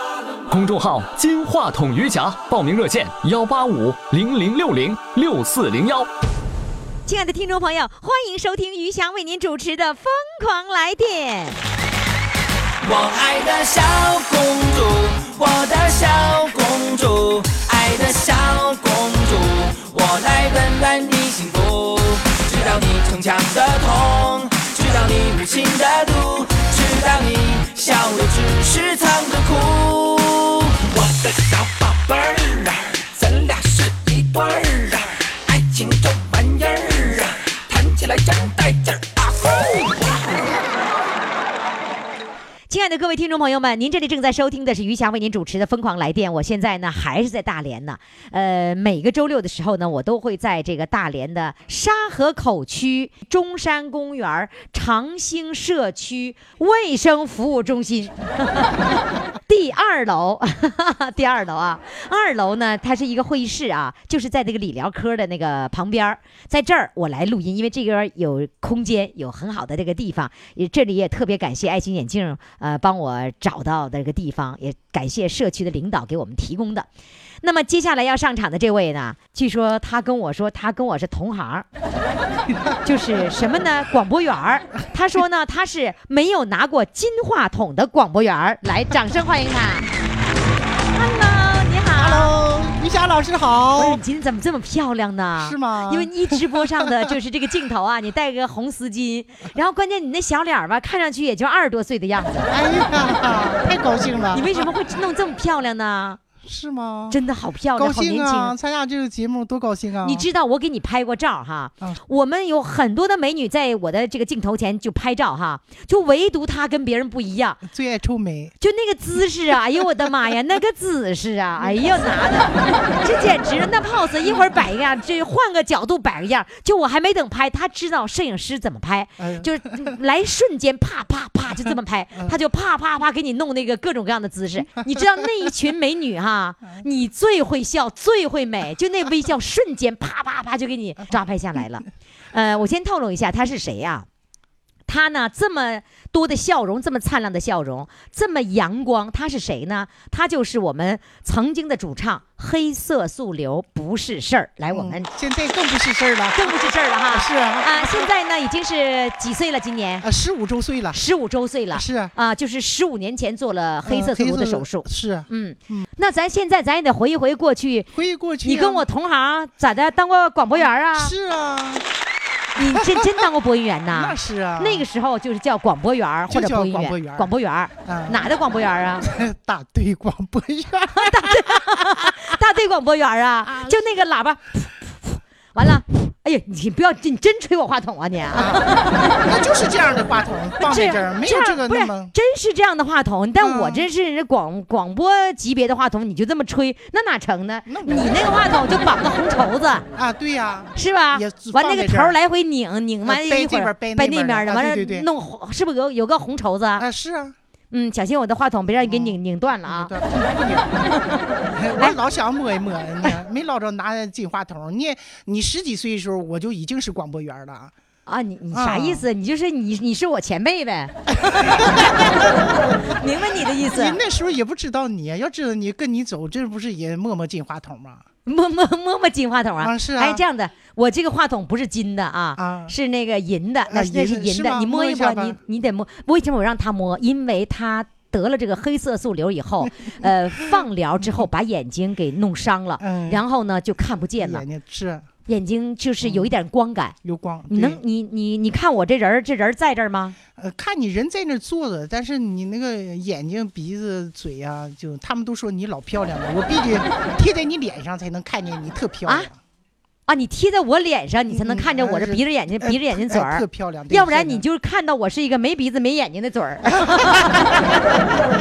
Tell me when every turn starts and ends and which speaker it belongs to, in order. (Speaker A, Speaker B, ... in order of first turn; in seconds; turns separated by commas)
Speaker A: 0.5-6.1, Speaker B: 7.1-11.6, Speaker C: 12.8-40.4, Speaker B: 42.7-58.8, Speaker B: 59.5-76.9, Speaker B: 77.4-81.7, Speaker D: 82.5-83.3, Speaker B: 82.8-89.9, Speaker B: 90.9-92.3, Speaker D: 92.0-94.0, Speaker B: 93.8-102.5, Speaker D: 95.4-97.1, Speaker D: 102.5-104.6, Speaker B: 104.3-106.2, Speaker D: 106.4-107.2, Speaker B: 107.1-108.5, Speaker D: 107.8-110.3, Speaker B: 110.0-117.6, Speaker D: 117.7-118.5, Speaker B: 118.6-144.1, Speaker D: 121.6-121.9, Speaker D: 129.2-129.9, Speaker D: 131.6-132.4, Speaker B: 144.9-155.1, Speaker D: 154.7-156.6, Speaker B: 156.4-160.1, Speaker D: 157.1-158.1, Speaker D: 160.0-161.0, Speaker B: 160.9-167.9, Speaker D: 161.7-162.1, Speaker D: 163.8-165.9, Speaker D: 167.9-168.9, Speaker B: 168.4-171.1, Speaker D: 170.6-171.8, Speaker B: 172.6-179.1, Speaker D: 172.8-173.2, Speaker D: 173.9-174.9, Speaker D: 176.3-177.3, Speaker D: 177.8-178.3, Speaker D: 179.0-182.4, Speaker B: 181.0-189.2, Speaker D: 183.4-183.9, Speaker D: 188.3-188.7, Speaker D: 189.2-192.1, Speaker B: 190.6-199.8, Speaker D: 193.4-193.9, Speaker D: 197.7-198.4, Speaker D: 199.9-202.2, Speaker B: 200.8-206.8, Speaker D: 203.1-205.1, Speaker D: 206.8-207.4, Speaker B: 207.7-209.9, Speaker D: 208.8-210.8, Speaker B: 210.9-211.9, Speaker D: 211.6-217.7, Speaker B: 218.1-224.0, Speaker D: 218.5-219.1, Speaker D: 221.1-222.9, Speaker D: 223.7-228.1, Speaker B: 228.3-244.4, Speaker D: 229.6-230.2, Speaker D: 232.4-232.7, Speaker D: 233.7-235.4, Speaker D: 239.6-241.2, Speaker D: 242.8-243.2, Speaker D: 244.2-245.1, Speaker B: 245.3-246.9, Speaker D: 246.0-246.3, Speaker D: 247.0-247.8, Speaker B: 247.5-250.2, Speaker D: 250.4-259.4, Speaker B: 260.1-267.9, Speaker D: 261.3-264.4, Speaker D: 266.8-267.5